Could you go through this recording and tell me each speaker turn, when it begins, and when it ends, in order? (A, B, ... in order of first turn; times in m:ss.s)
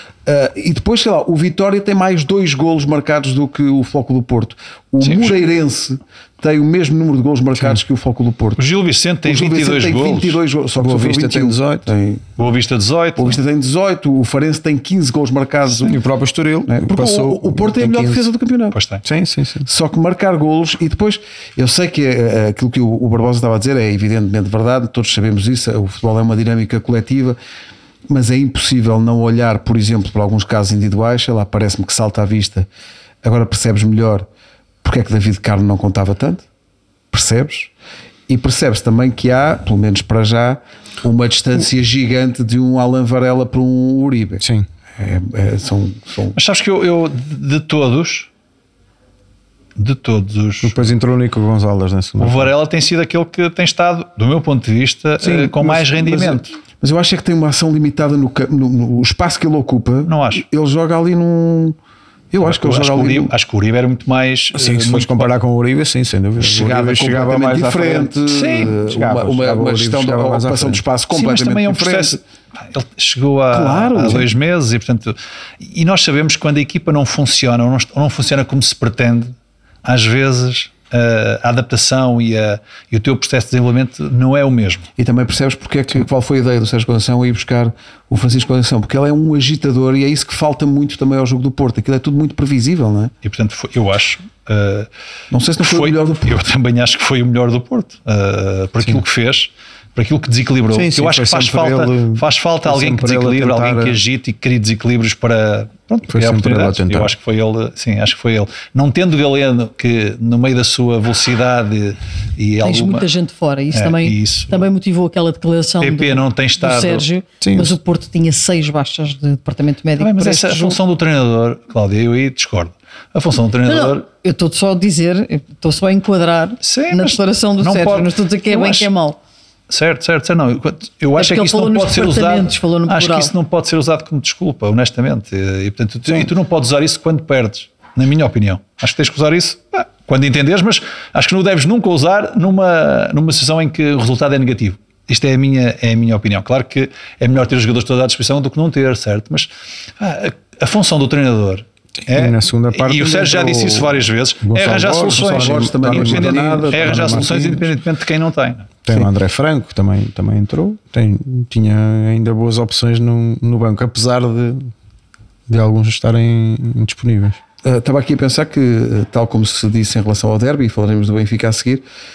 0:00.2-0:08.6 A
0:05.0-0:05.4 B
0:07.6-0:07.8 C
0:08.6-0:10.4 B
0:09.2-0:12.2 A
0:10.8-0:11.9 C
0:12.4-0:13.4 B
0:13.2-0:16.0 A
0:15.7-0:18.2 C
0:16.7-0:18.8 A
0:18.7-0:19.0 B
0:19.0-0:19.7 C
0:19.6-0:27.4 A
0:28.1-0:32.7 A
0:33.2-0:34.3 A
0:34.8-0:36.4 A
0:37.1-0:37.7 A
0:38.3-0:44.4 A
0:44.4-0:44.7 C
0:45.0-0:46.4 A
0:46.3-0:48.3 B
0:49.8-0:50.9 B
0:50.6-0:52.5 C
0:52.2-0:56.5 B
0:55.2-0:56.4 C
0:56.8-1:01.8 A
1:00.0-1:00.4 B
1:02.3-1:03.3 A
1:02.4-1:05.3 B
1:04.5-1:10.8 C
1:06.4-1:12.2 A
1:08.3-1:08.8 B
1:11.1-1:24.9 B
1:13.5-1:14.3 A
1:25.0-1:33.1 A
1:33.2-1:34.9 B
1:35.3-1:36.4 A
1:35.6-1:53.1 B
1:40.7-1:44.0 C
1:46.1-1:47.1 C
1:52.6-2:00.8 D
1:53.7-1:54.6 B
1:55.8-1:57.0 B
1:57.4-1:57.7 C
2:00.0-2:04.0 B
2:03.6-2:09.2 D
2:06.6-2:08.9 B
2:09.7-2:38.7 B
2:11.2-2:13.3 D
2:32.1-2:37.6 C
2:35.1-2:37.7 A
2:38.8-2:44.7 C
2:45.5-2:47.4 C
2:47.6-2:51.8 A